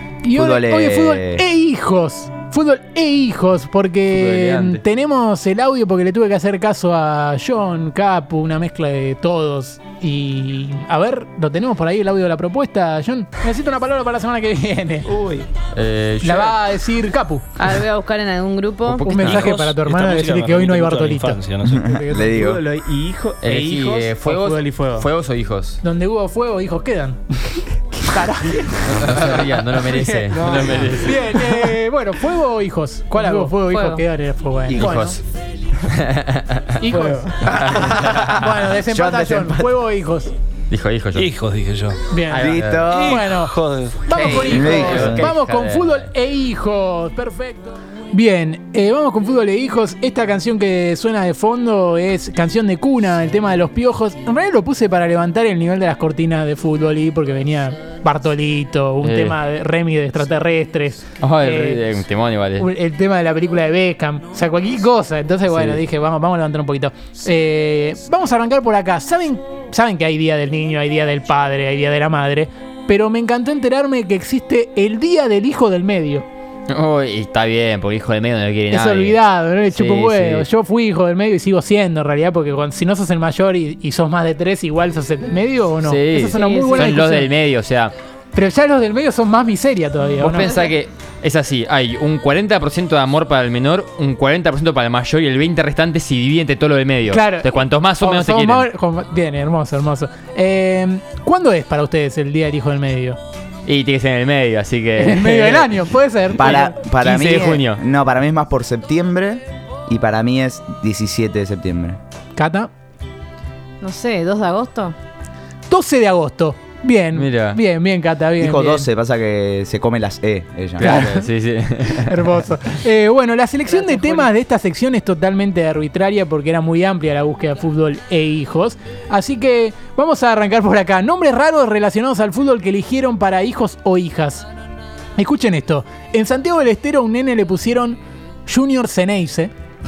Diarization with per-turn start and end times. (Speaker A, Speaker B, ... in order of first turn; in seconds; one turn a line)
Speaker A: 0.2-15.3
Speaker B: 0.3-1.4
Speaker C: 4.1-4.8
Speaker C: 15.7-16.6
Speaker A: 16.2-17.8
Speaker D: 17.6-19.1
Speaker A: 18.9-25.1
Speaker E: 19.0-22.2
Speaker C: 19.1-19.5
Speaker B: 21.6-22.6
Speaker C: 23.4-25.8
Speaker A: 25.8-29.4
Speaker C: 28.8-31.7
Speaker A: 29.9-35.2
Speaker D: 33.2-34.0
Speaker B: 34.7-35.1
Speaker C: 34.7-35.2
Speaker C: 35.9-38.1
Speaker A: 36.8-40.3
Speaker B: 37.5-39.8
Speaker C: 40.7-41.3
Speaker E: 41.1-42.0
Speaker A: 42.1-61.9
Speaker C: 42.3-43.0
Speaker B: 42.4-43.2
Speaker E: 42.9-44.6
Speaker B: 44.1-45.3
Speaker C: 44.3-46.1
Speaker C: 59.0-59.4
Speaker C: 61.2-62.7
Speaker A: 62.6-76.2
Speaker C: 65.5-65.8
Speaker C: 76.7-79.2
Speaker A: 78.7-87.3
Speaker C: 79.7-80.5
Speaker C: 85.8-87.9
Speaker D: 86.3-87.0
Speaker A: 88.3-90.6
Speaker C: 90.2-98.7
Speaker A: 97.1-103.2
Speaker C: 103.7-105.8
Speaker A: 105.0-106.8
Speaker B: 106.3-112.0
Speaker C: 106.4-107.8
Speaker A: 112.3-112.7
Speaker D: 113.8-114.9
Speaker A: 115.7-118.8
Speaker C: 117.1-117.6
Speaker B: 118.4-121.2
Speaker A: 120.8-121.3
Speaker C: 120.8-122.3
Speaker A: 121.9-134.5
Speaker D: 123.7-124.2
Speaker A: 135.2-139.5